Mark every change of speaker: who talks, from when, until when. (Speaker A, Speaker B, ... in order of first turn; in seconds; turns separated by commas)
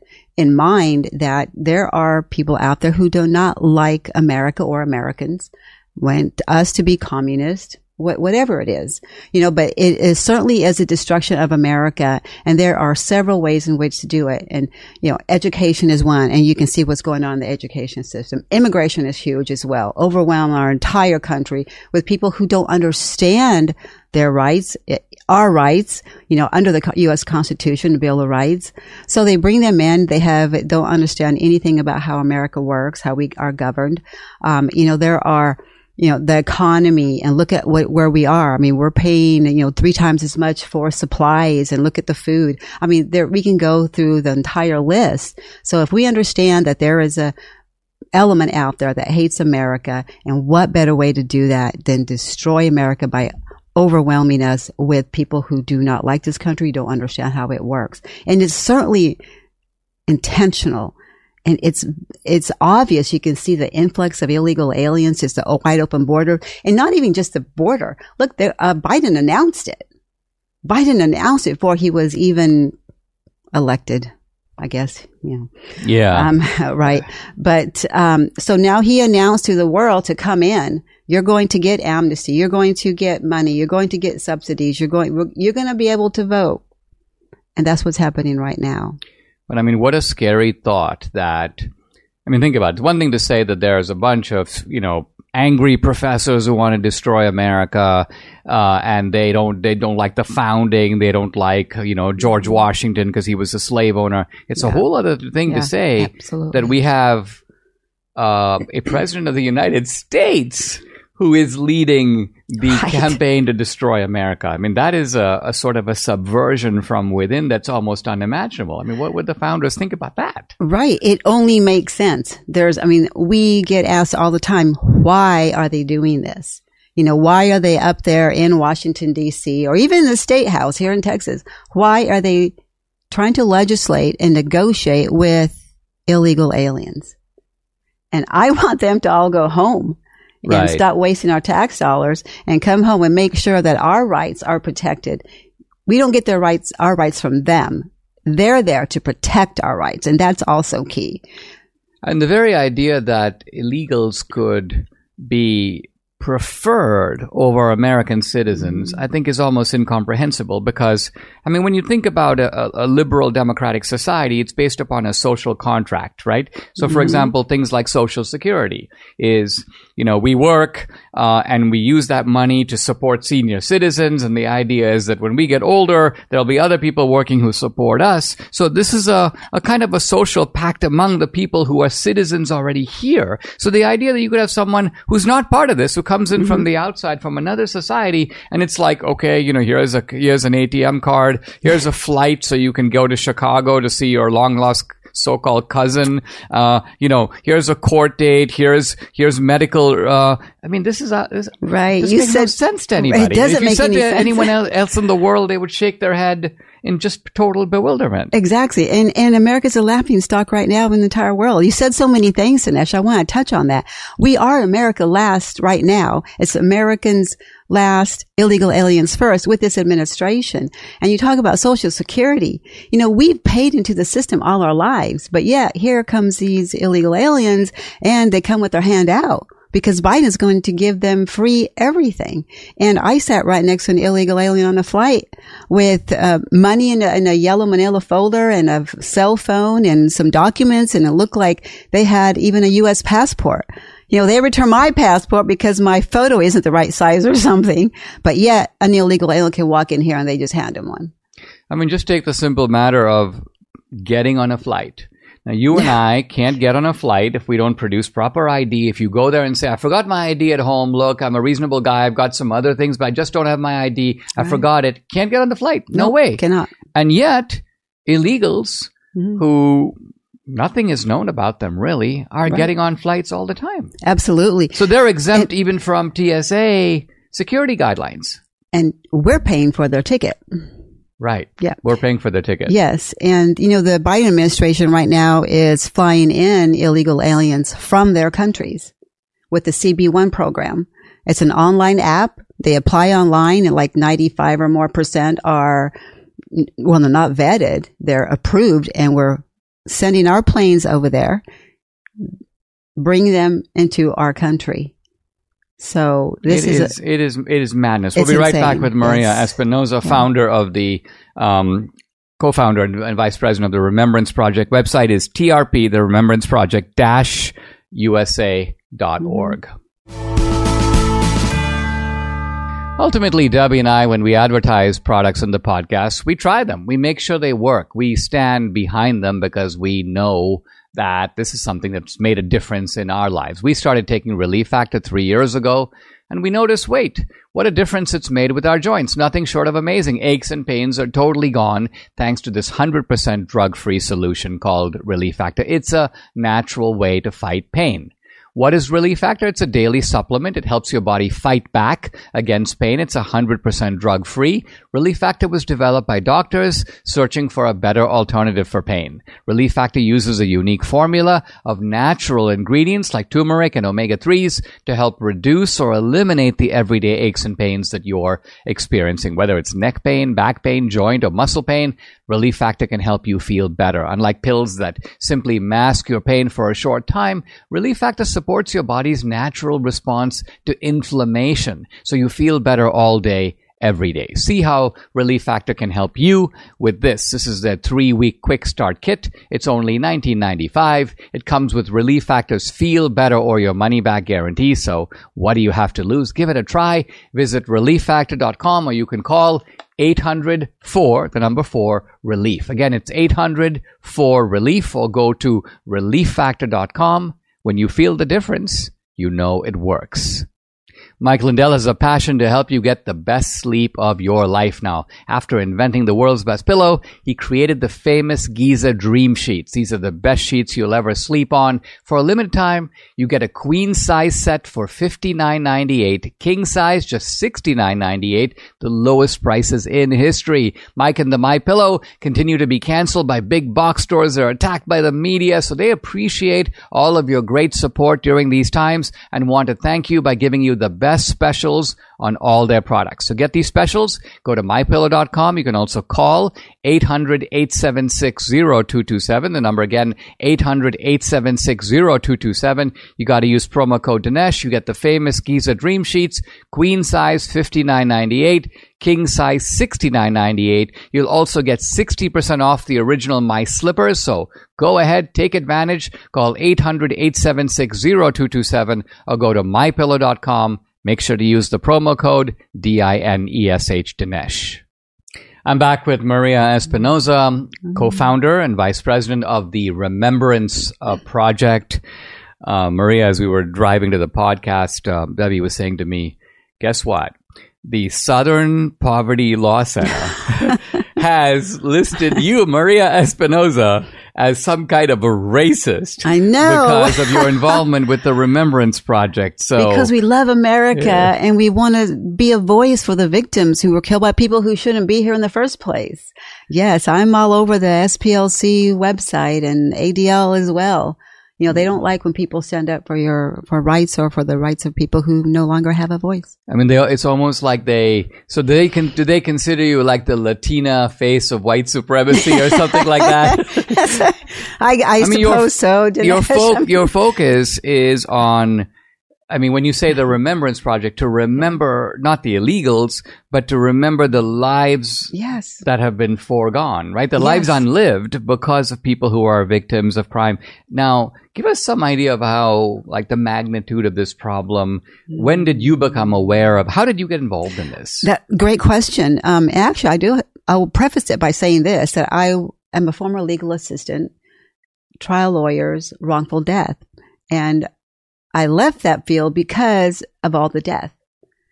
Speaker A: 0.4-47.3, Speaker A: 48.1-59.2, Speaker A: 60.1-60.9, Speaker A: 61.5-69.8, Speaker A: 70.7-72.7, Speaker A: 73.5-75.5, Speaker B: 75.8-76.3, Speaker A: 76.1-86.6, Speaker A: 87.6-89.0, Speaker B: 89.5-91.7, Speaker B: 92.2-107.4, Speaker A: 104.6-104.8, Speaker A: 105.5-106.7, Speaker B: 108.2-120.5, Speaker A: 112.7-113.1, Speaker A: 120.6-132.5, Speaker A: 133.1-137.1, Speaker A: 138.1-145.2, Speaker B: 140.5-140.8, Speaker A: 145.9-151.2, Speaker B: 152.0-208.3, Speaker A: 201.6-204.5, Speaker A: 208.3-251.1, Speaker B: 251.7-266.4, Speaker A: 265.9-266.7, Speaker B: 266.9-270.0, Speaker B: 270.5-273.9, Speaker A: 274.0-274.8, Speaker B: 274.7-278.4, Speaker A: 278.7-280.4, Speaker B: 281.2-282.8, Speaker A: 282.7-288.9, Speaker A: 289.5-295.9, Speaker A: 296.5-301.4, Speaker A: 303.0-304.9, Speaker A: 305.8-306.9, Speaker B: 306.5-319.7, Speaker A: 308.2-309.4, Speaker B: 323.0-410.5, Speaker B: 411.2-474.8, Speaker B: 475.6-482.0, Speaker B: 482.6-500.1, Speaker A: 496.2-497.5, Speaker A: 499.8-516.5, Speaker B: 500.9-501.3, Speaker B: 516.7-524.2, Speaker A: 523.9-527.0, Speaker B: 525.2-528.9, Speaker B: 529.5-548.3, Speaker A: 535.3-535.8, Speaker A: 537.4-537.8, Speaker A: 548.2-554.3, Speaker A: 555.2-557.0, Speaker A: 557.5-557.9, Speaker A: 558.5-561.1